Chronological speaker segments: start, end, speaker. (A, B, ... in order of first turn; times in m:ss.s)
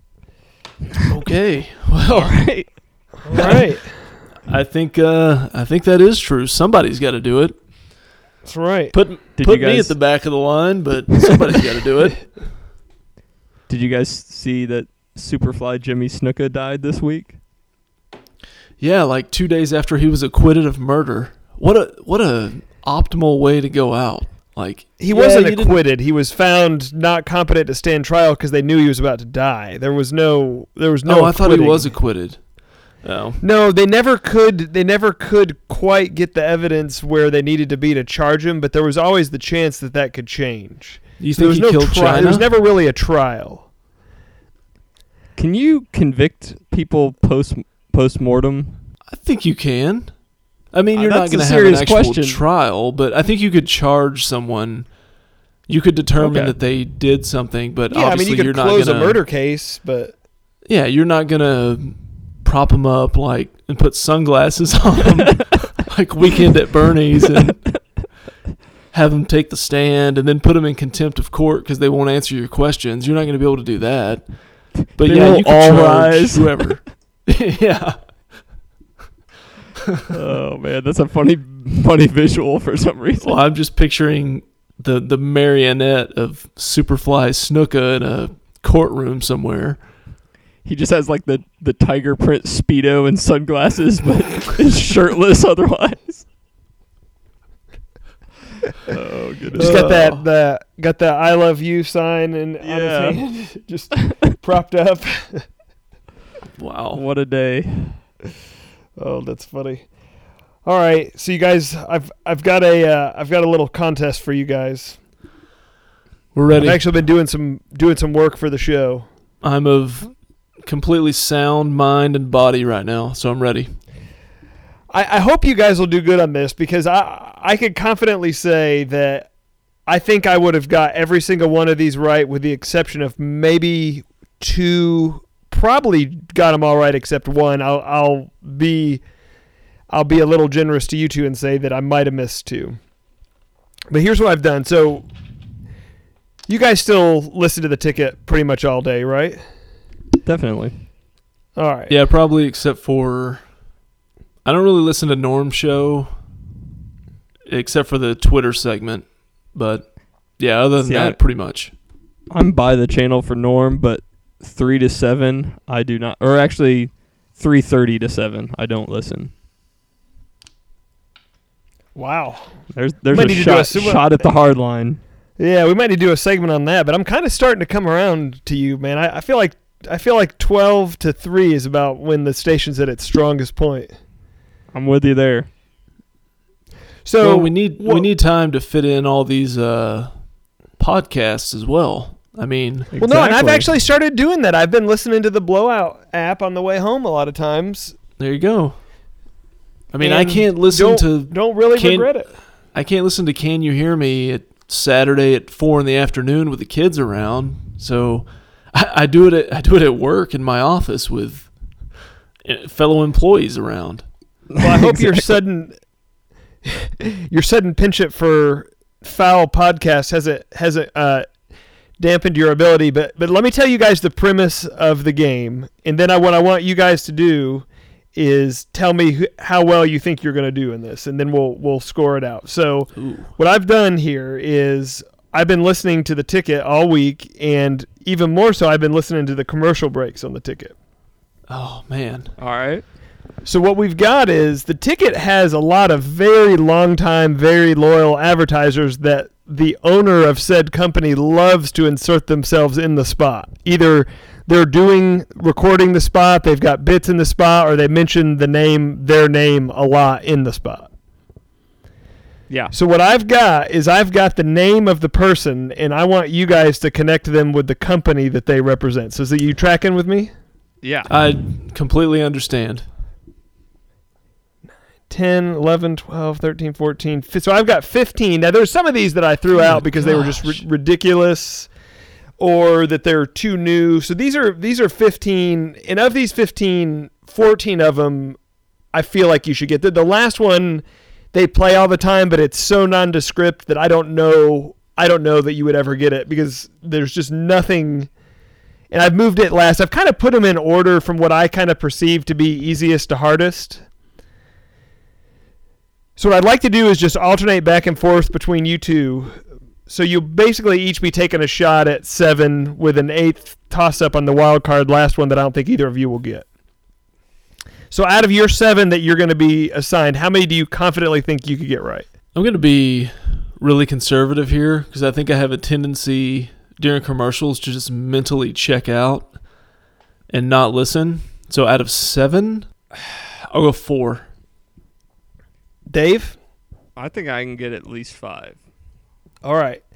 0:01.0-0:02.5 A
0:02.1-0:03.6 B
0:03.2-0:04.1 C
0:03.4-0:07.7 A
0:08.4-0:09.0 C
0:08.9-0:12.5 A
0:09.4-0:10.1 B
0:13.7-0:17.4 B
0:18.8-0:25.8 A
0:25.0-0:32.0 C
0:31.1-0:33.4 A
0:33.4-0:43.7 C
0:41.2-0:42.5 A
0:45.4-0:48.8 B
0:49.1-0:50.2 A
0:50.7-0:55.0 A
0:50.9-0:52.4 B
0:55.7-0:59.2 A
0:56.2-0:56.6 B
0:57.9-1:00.1 C
1:00.7-1:08.0 A
1:08.9-1:18.3 A
1:15.0-1:16.8 B
1:20.1-1:23.3 B
1:23.2-1:29.8 A
1:30.6-1:36.3 B
1:38.9-1:40.0 B
1:39.6-1:40.2 A
1:39.6-1:45.5 C
1:42.6-1:43.3 B
1:46.6-1:47.0 A
1:46.9-1:48.0 B
1:49.0-1:49.9 C
1:50.6-1:55.0 C
1:56.3-1:56.8 A
1:56.6-1:59.1 C
1:59.4-2:03.8 A
2:04.9-2:09.3 C
2:09.9-2:19.0 C
2:19.9-2:22.8 C
2:23.9-2:25.1 C
2:26.5-2:29.4 C
2:30.2-2:30.8 B
2:31.6-2:31.9 C
2:31.9-2:33.5 A
2:34.4-2:36.1 A
2:37.5-2:41.7 A
2:40.9-2:41.2 B
2:42.3-2:49.3 B
2:51.9-2:54.3 C
2:52.7-2:55.0 B
2:55.4-3:03.9 C
3:04.7-3:05.5 B
3:07.0-3:08.1 C
3:07.2-3:10.3 A
3:10.8-3:12.9 A
3:12.9-3:13.7 B
3:12.9-3:17.9 C
3:18.2-3:18.8 A
3:19.9-3:22.2 A
3:20.0-3:22.3 C
3:22.7-3:31.5 A
3:32.4-3:34.0 A
3:34.5-3:35.4 B
3:34.6-3:35.8 C
3:36.6-3:41.3 C
3:42.0-4:00.8 C
3:53.0-3:53.3 A
4:01.5-4:02.3 A
4:02.4-4:02.8 B
4:03.4-4:20.9 C
4:22.7-4:30.3 C
4:30.8-4:31.1 B
4:31.1-4:32.8 A
4:35.1-4:41.7 C
4:40.2-4:40.6 A
4:42.4-4:48.4 C
4:48.9-4:58.1 C
4:58.9-5:03.8 C
5:06.2-5:16.5 C
5:17.9-5:22.1 C
5:22.3-5:29.3 A
5:30.3-5:34.3 A
5:35.9-5:36.4 C
5:37.0-5:38.6 B
5:39.4-5:39.8 C